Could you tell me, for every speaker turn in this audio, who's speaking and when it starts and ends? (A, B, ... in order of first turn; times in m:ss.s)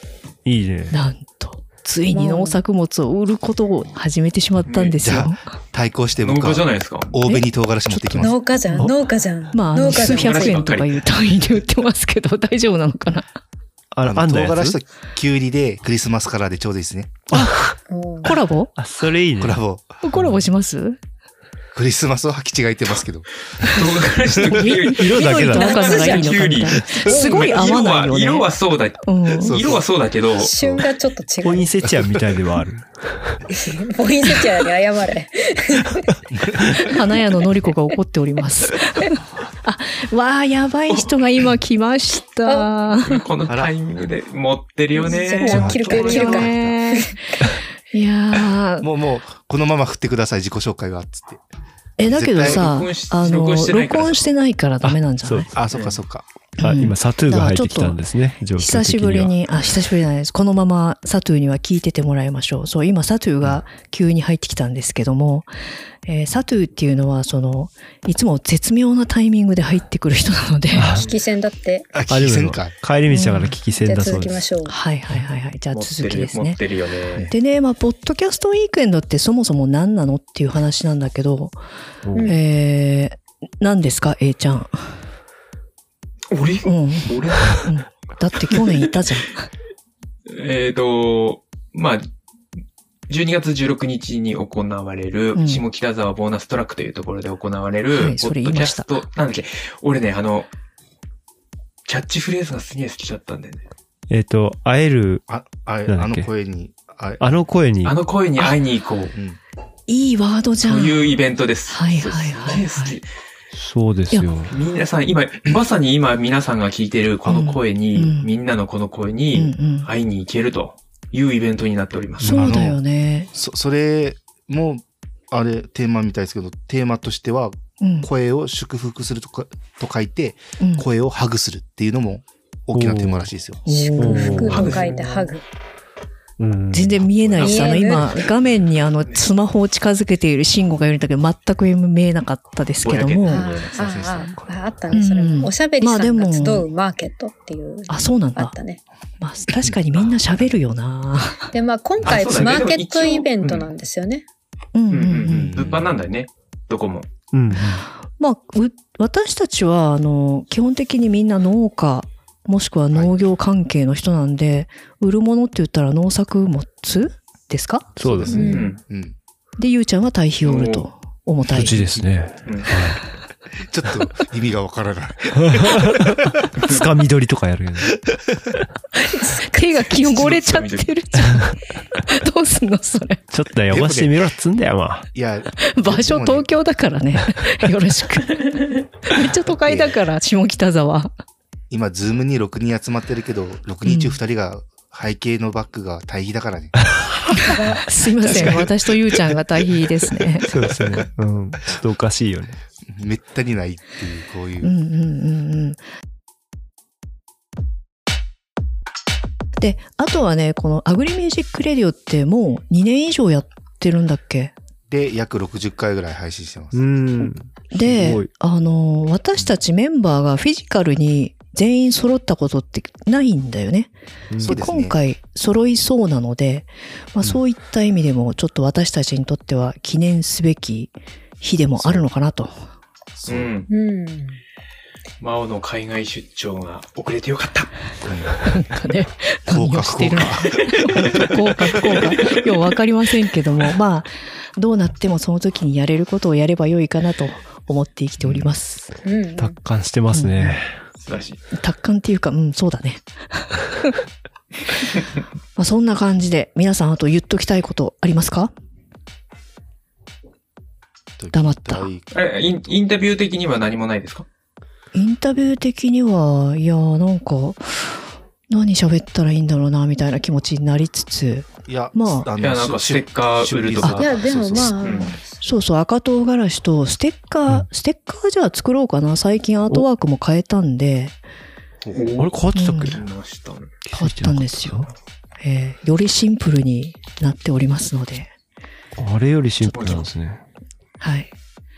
0:00.5-0:01.0 A
0:00.9-0:05.4 B
0:02.1-0:02.6 C
0:04.7-0:05.0 D
0:05.0-0:08.4 E
0:06.2-0:07.1 D
0:07.2-0:08.9 B
0:08.2-0:10.7 C
0:09.5-0:13.3 B
0:10.0-0:11.0 D
0:13.9-0:14.8 A
0:14.1-0:17.2 E
0:17.3-0:17.8 A
0:17.9-0:18.3 C
0:18.2-0:18.7 B
0:18.8-0:19.6 A
0:19.4-0:20.0 E
0:20.0-0:21.0 B
0:21.7-0:23.3 E
0:23.6-0:30.5 D
0:24.4-0:24.7 E
0:24.5-0:28.5 B
0:24.9-0:25.8 A
0:25.5-0:26.3 C
0:27.0-0:27.5 C
0:29.0-0:29.6 B
0:29.4-0:29.8 E
0:30.4-0:31.7 C
0:30.5-0:30.8 E
0:31.4-0:33.4 A
0:31.8-0:32.1 E
0:33.5-0:36.1 C
0:36.3-0:36.7 E
0:36.8-0:43.2 B
0:42.4-0:42.7 C
0:43.1-0:46.2 D
0:45.0-0:47.1 C
0:45.4-0:48.9 B
0:45.5-0:46.8 E
0:48.8-0:51.4 E
0:52.0-0:55.5 B
0:52.0-0:52.7 E
0:52.4-0:54.3 D
0:54.8-0:55.5 A
0:55.5-0:56.3 E
0:55.7-0:56.0 D
0:56.6-0:58.0 B
0:56.6-0:59.3 A
0:58.5-1:05.5 B
1:06.1-1:11.0 B
1:10.8-1:11.1 A
1:11.0-1:12.0 C
1:11.9-1:12.8 E
1:12.1-1:14.4 A
1:13.1-1:13.6 B
1:13.8-1:14.8 C
1:14.7-1:16.6 B
1:15.7-1:17.3 D
1:17.2-1:21.6 B
1:22.0-1:22.3 A
1:22.2-1:24.9 B
1:26.3-1:27.7 D
1:26.7-1:29.5 B
1:30.3-1:32.0 D
1:33.1-1:40.5 D
1:35.4-1:35.6 B
1:37.9-1:39.0 B
1:41.9-1:43.7 D
1:44.1-1:45.2 A
1:45.3-1:47.3 E
1:45.9-1:46.3 A
1:47.2-1:48.0 A
1:47.8-1:49.2 D
1:49.1-1:49.4 E
1:49.9-1:51.1 B
1:50.6-1:53.1 D
1:51.7-1:53.0 B
1:53.5-1:54.5 A
1:54.5-2:02.4 D
1:57.2-1:58.3 B
1:59.3-1:59.9 B
2:02.2-2:03.3 B
2:02.2-2:02.5 A
2:02.3-2:02.8 E
2:03.3-2:13.6 E
2:07.8-2:08.1 B
2:10.6-2:10.9 B
2:12.7-2:13.3 A
2:13.7-2:14.8 B
2:13.7-2:15.4 C
2:14.0-2:14.7 A
2:14.5-2:15.3 D
2:16.4-2:17.3 A
2:16.7-2:23.5 B
2:17.4-2:18.1 C
2:17.4-2:19.3 D
2:22.8-2:23.9 D
2:23.3-2:28.8 C
2:23.7-2:24.5 E
2:24.9-2:26.7 B
2:27.9-2:28.5 B
2:29.2-2:31.5 B
2:31.5-2:34.2 C
2:32.0-2:33.7 D
2:34.7-2:35.5 B
2:34.9-2:37.1 D
2:35.3-2:36.0 E
2:37.3-2:37.8 A
2:37.5-2:48.6 B
2:48.0-2:48.4 A
2:48.2-2:49.2 E
2:48.3-2:48.7 C
2:48.4-2:48.8 D
2:49.6-2:51.8 B
2:50.4-2:50.9 D
2:51.5-2:53.0 A
2:52.5-2:52.7 D
2:53.6-2:56.3 E
2:55.4-2:55.8 A
2:56.6-2:58.0 A
2:59.0-3:03.2 B
2:59.2-2:59.6 C
2:59.9-3:00.9 D
3:03.3-3:05.1 A
3:03.7-3:04.2 E
3:05.1-3:06.5 E
3:05.6-3:11.1 B
3:09.6-3:10.0 E
3:11.7-3:16.8 E
3:13.9-3:14.2 B
3:17.4-3:20.5 B
3:17.4-3:17.9 C
3:20.5-3:22.6 A
3:22.9-3:24.7 E
3:24.6-3:25.8 B
3:29.6-3:34.5 B
3:34.9-3:36.8 E
3:36.7-3:38.3 A
3:37.7-3:52.7 B
3:44.3-3:44.6 A
3:44.4-3:45.0 E
3:51.8-3:52.1 E
3:53.2-3:53.5 E
3:53.3-3:53.7 D
3:53.7-3:54.4 C
3:55.2-3:57.7 D
3:58.0-3:58.4 E
3:58.4-4:08.9 B
3:59.5-4:01.3 E
4:08.2-4:08.5 E
4:09.0-4:09.6 C
4:09.4-4:10.8 A
4:10.1-4:10.6 B
4:11.0-4:11.4 D
4:11.5-4:14.0 B
4:15.6-4:18.5 B
4:21.2-4:22.1 E
4:21.3-4:21.9 B
4:22.1-4:24.3 D
4:24.9-4:32.3 B
4:31.7-4:34.8 E
4:32.4-4:35.2 D
4:34.0-4:35.3 C
4:35.4-4:41.2 B
4:41.9-4:42.3 D
4:42.2-4:43.0 A
4:42.5-4:43.0 B
4:42.9-4:43.8 D
4:43.9-4:44.9 A
4:44.0-4:44.9 B
4:45.4-4:48.3 B
4:49.0-4:50.4 A
4:49.6-4:50.1 D
4:51.0-4:51.3 B